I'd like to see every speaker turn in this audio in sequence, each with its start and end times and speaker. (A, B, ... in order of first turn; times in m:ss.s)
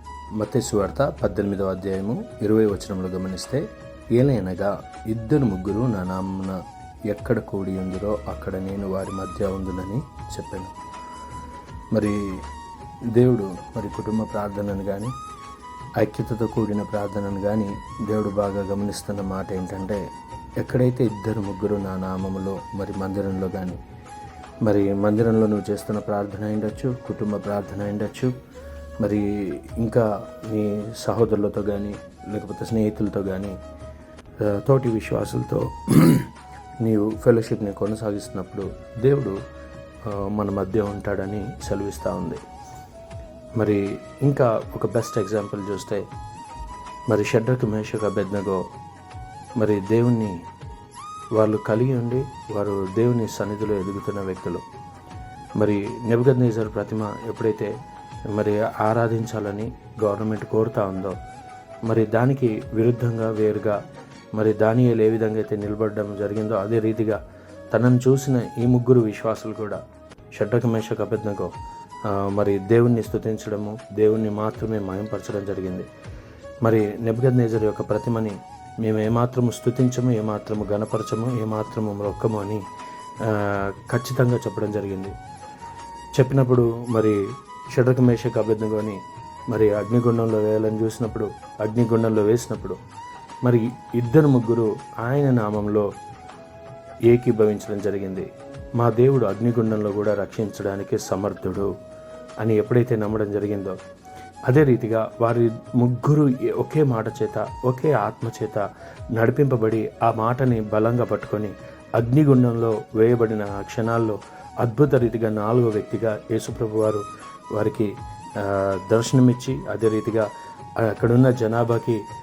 0:00.4-0:03.6 A
0:04.1-0:10.7 A
0:11.9-0:12.2 A
0:13.1-0:15.1 A
0:16.0-0:20.0 A
0:20.6-0:23.8 A
0:24.6-0:28.3 A
0:29.0-0:33.5 A
0:34.4-0:36.3 A
0:36.8-0:39.4 A
0:40.0-0:42.4 A
0:43.6-0:46.0 A
0:47.1-0:48.6 A
0:49.6-0:50.3 A
0:51.4-0:54.6 A
0:55.6-0:57.7 A
0:58.3-1:01.1 A
1:01.9-1:03.8 A
1:04.3-1:07.2 A
1:07.7-1:09.8 A
1:10.3-1:11.5 A
1:12.1-1:15.9 A
1:16.6-1:22.6 A
1:23.2-1:25.1 A
1:26.2-1:27.2 A
1:27.7-1:29.0 A
1:29.5-1:32.8 A
1:33.4-1:35.9 A
1:37.1-1:38.3 A
1:38.8-1:41.7 A
1:42.4-1:43.8 A
1:44.5-1:48.6 A
1:49.2-1:57.0 A
1:57.5-2:00.3 A
2:00.8-2:02.0 A